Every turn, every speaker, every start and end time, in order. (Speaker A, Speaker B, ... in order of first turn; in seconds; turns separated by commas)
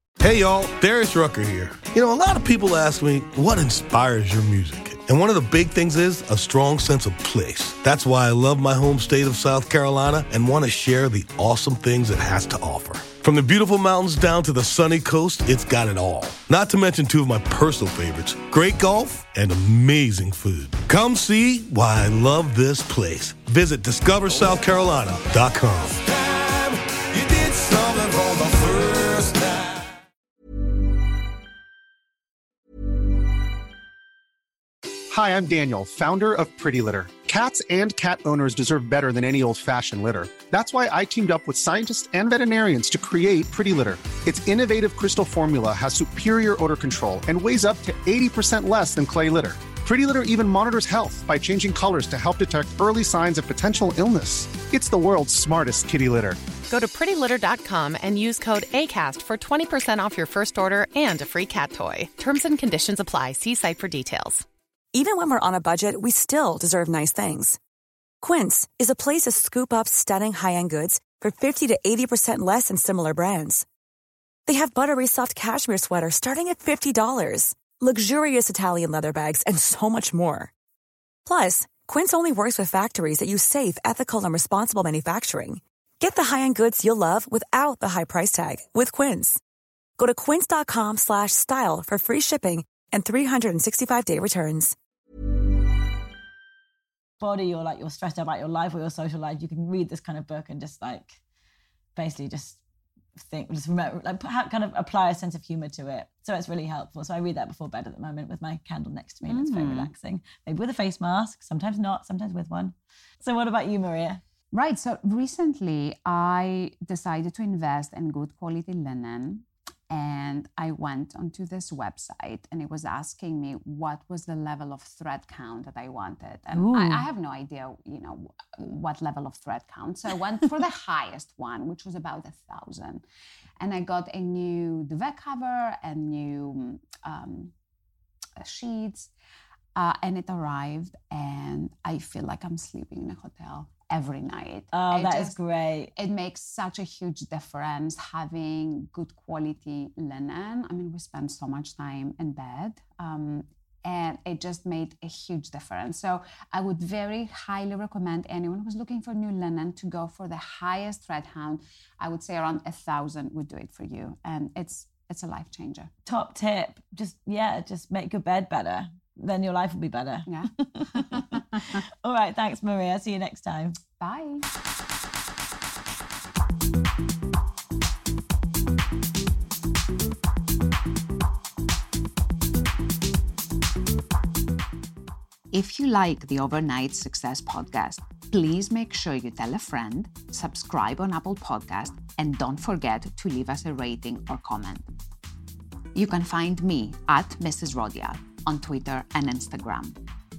Speaker A: 0.2-29.8, Speaker B: 35.1-56.4, Speaker C: 56.7-64.4, Speaker D: 64.9-67.6, Speaker D: 68.2-73.7, Speaker D: 74.5-80.5, Speaker D: 81.2-89.4, Speaker D: 90.0-94.7, Speaker E: 97.2-101.2, Speaker E: 101.9-102.6, Speaker E: 103.1-114.2, Speaker F: 109.3-109.9, Speaker F: 114.5-133.0, Speaker E: 126.5-127.0, Speaker F: 133.6-137.5, Speaker F: 138.4-139.1, Speaker F: 139.7-145.4, Speaker E: 144.7-145.9, Speaker F: 145.9-165.9, Speaker E: 166.0-173.8, Speaker F: 170.3-171.8, Speaker F: 174.0-174.4, Speaker F: 185.5-194.9, Speaker F: 195.9-200.0